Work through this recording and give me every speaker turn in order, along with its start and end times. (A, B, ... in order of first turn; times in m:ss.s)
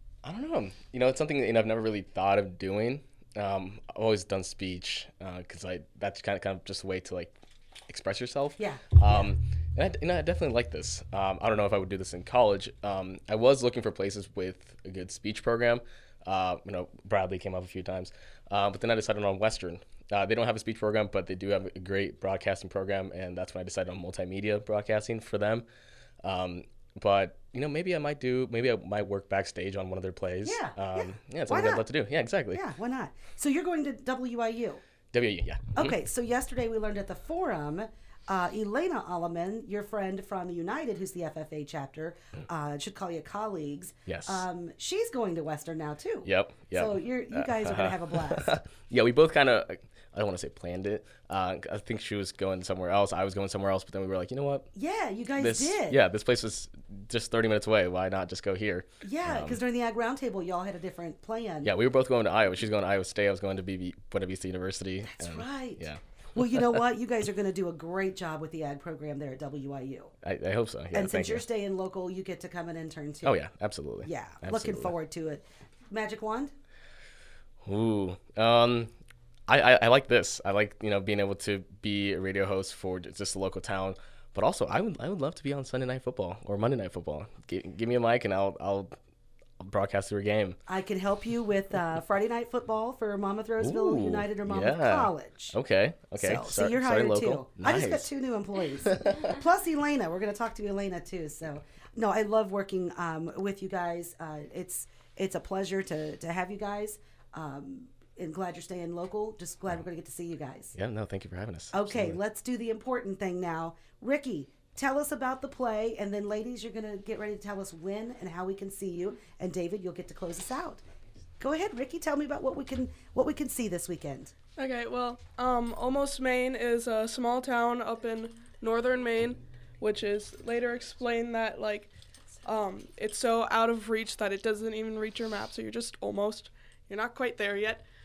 0:00.2-0:25.6 A
0:08.6-0:09.3 B
0:26.2-0:32.6 A
0:30.4-0:31.9 B
0:32.5-0:34.8 B
0:35.1-0:36.0 A
0:35.7-0:48.6 B
0:44.1-0:44.5 A
0:46.2-0:54.7 A
0:54.7-0:56.0 B
0:55.3-0:59.6 A
0:59.0-1:01.7 B
1:01.6-1:06.8 A
1:05.0-1:10.1 B
1:10.2-1:11.4 A
1:10.9-1:13.4 B
1:13.2-1:14.9 A
1:14.0-1:16.5 B
1:17.6-1:18.9 A
1:19.5-1:28.9 A
1:29.6-1:30.6 A
1:30.7-1:35.5 B
1:33.6-1:38.1 A
1:36.2-1:50.7 B
1:38.8-1:39.3 A
1:50.7-1:52.2 A
1:51.7-2:00.8 B
2:01.4-2:04.3 B
2:04.6-2:11.9 C
2:12.4-2:17.8 C